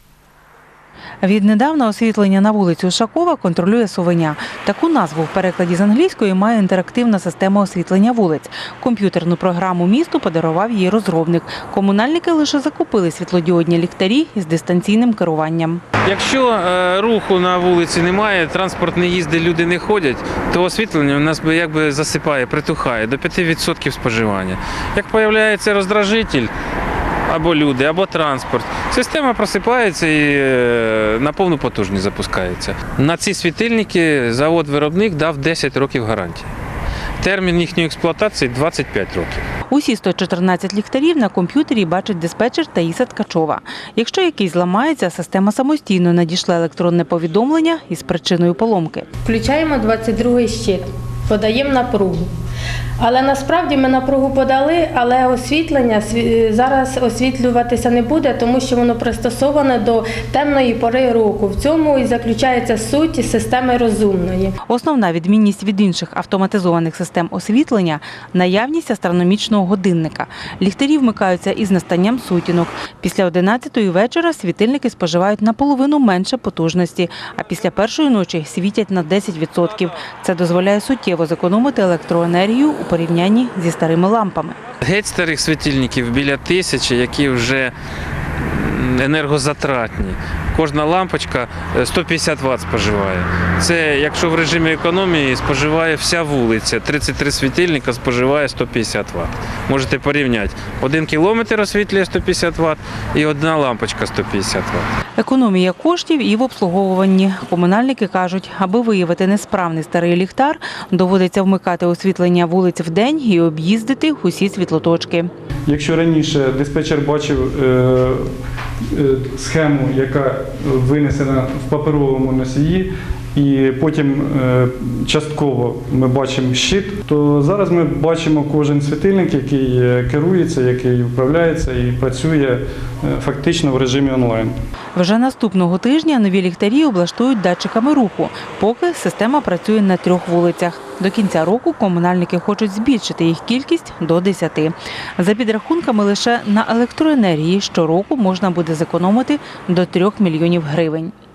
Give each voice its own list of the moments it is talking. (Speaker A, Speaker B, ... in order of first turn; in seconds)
Speaker A: 1.2-15.8, 39.7-49.1, 64.7-84.6, 105.2-115.3, 135.0-151.1
Speaker B: 16.1-26.5, 27.3-36.5, 37.2-39.5, 84.8-87.7, 88.4-104.9
Speaker C: 49.2-52.3, 53.0-64.5
Speaker D: 115.7-118.3, 118.9-134.5